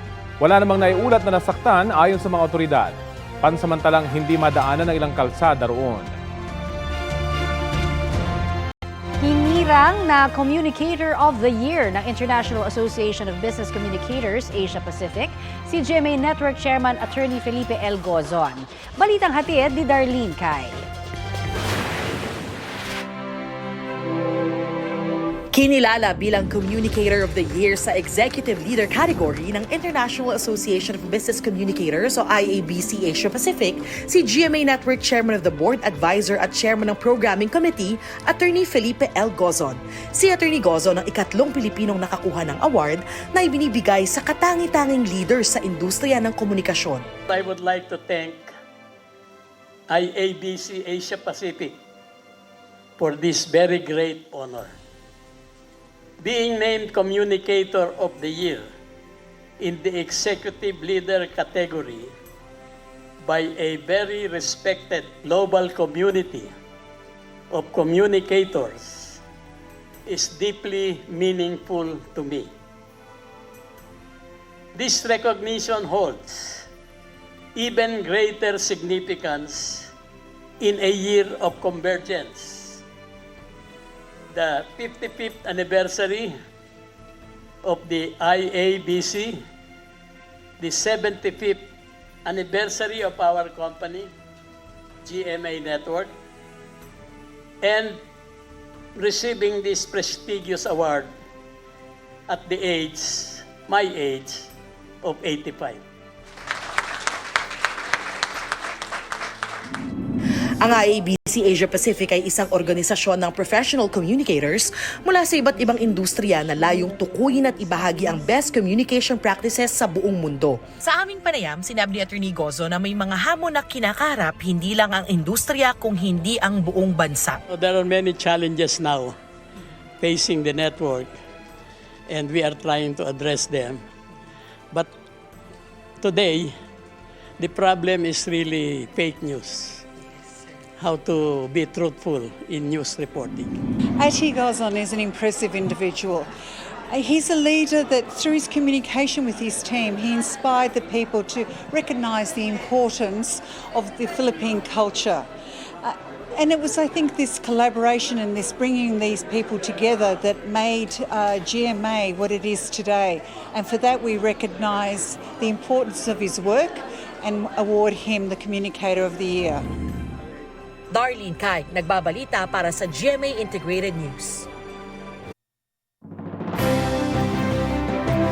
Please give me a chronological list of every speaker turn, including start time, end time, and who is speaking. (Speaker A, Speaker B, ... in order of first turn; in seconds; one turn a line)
Speaker A: 0.4-6.1
Speaker B: 9.2-20.9
Speaker C: 25.5-47.0
Speaker D: 47.3-48.5
Speaker D: 49.9-51.7
Speaker D: 53.0-54.7
Speaker D: 56.2-58.7
Speaker D: 59.6-62.1
Speaker D: 63.2-66.5
Speaker D: 67.5-69.2
Speaker D: 70.0-72.5
Speaker D: 74.7-76.7
Speaker D: 77.5-79.9
Speaker D: 80.6-82.8
Speaker D: 84.3-86.3
Speaker D: 87.6-89.4
Speaker D: 90.6-91.6
Speaker D: 92.2-94.1
Speaker D: 95.0-96.1
Speaker D: 97.6-98.0
Speaker D: 99.0-101.1
Speaker D: 102.3-104.5
Speaker D: 105.0-105.8
Speaker C: 110.6-127.4
Speaker D: 127.5-129.2
Speaker D: 130.0-131.1
Speaker D: 132.1-133.8
Speaker D: 136.0-136.5
Speaker D: 137.4-139.8
Speaker D: 140.8-143.6
Speaker E: 144.0-146.2
Speaker E: 146.9-155.2
Speaker E: 155.8-169.6
Speaker C: 170.9-174.4